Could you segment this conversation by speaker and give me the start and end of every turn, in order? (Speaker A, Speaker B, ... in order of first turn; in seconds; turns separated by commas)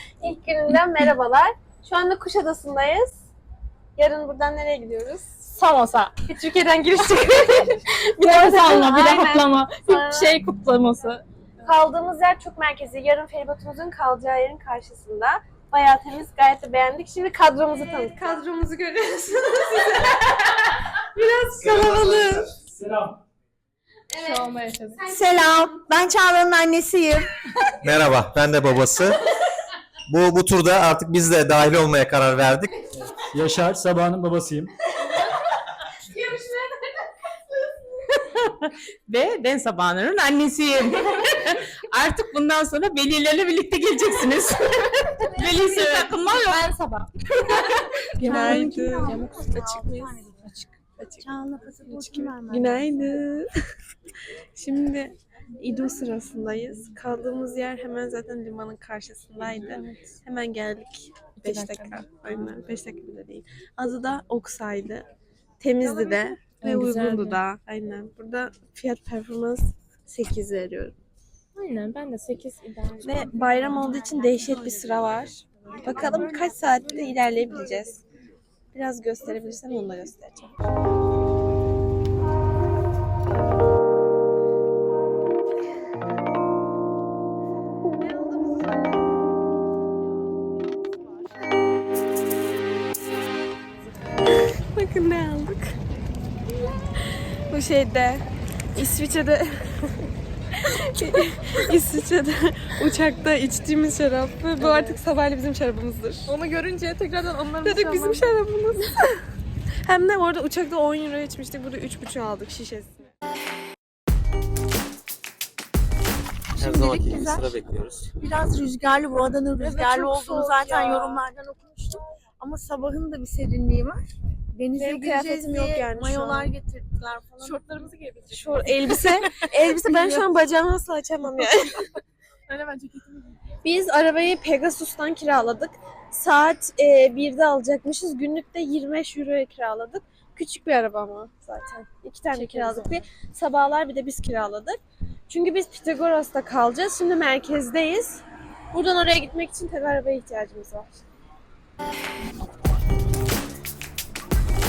Speaker A: 0.2-3.3, Speaker A: 4.0-5.4, Speaker B: 5.5-6.2, Speaker A: 6.2-10.4, Speaker B: 8.1-11.2, Speaker A: 11.6-22.5, Speaker C: 22.6-23.2, Speaker B: 24.1-25.0, Speaker D: 25.1-27.3, Speaker E: 27.8-29.2, Speaker E: 30.1-32.7, Speaker C: 33.3-34.7, Speaker F: 38.2-46.5, Speaker B: 45.3-50.7, Speaker A: 47.4-50.1, Speaker D: 48.2-50.4, Speaker A: 51.0-51.3, Speaker D: 51.2-53.0, Speaker A: 51.9-53.5, Speaker A: 54.5-65.1, Speaker B: 61.4-62.0, Speaker A: 65.6-71.0, Speaker B: 66.6-67.4, Speaker B: 71.5-74.0, Speaker A: 73.0-78.0, Speaker A: 78.7-80.5, Speaker A: 94.4-95.8, Speaker A: 97.1-100.0, Speaker A: 100.5-106.3, Speaker B: 104.6-105.0, Speaker B: 106.3-108.3, Speaker A: 107.6-109.2, Speaker A: 109.8-113.1, Speaker D: 116.6-117.5, Speaker E: 116.6-118.1, Speaker D: 118.2-124.0, Speaker A: 119.6-121.2, Speaker D: 124.5-127.6, Speaker A: 124.8-126.5, Speaker B: 127.4-130.2, Speaker A: 128.3-131.9, Speaker B: 132.5-133.4, Speaker A: 133.6-151.1, Speaker B: 142.3-143.0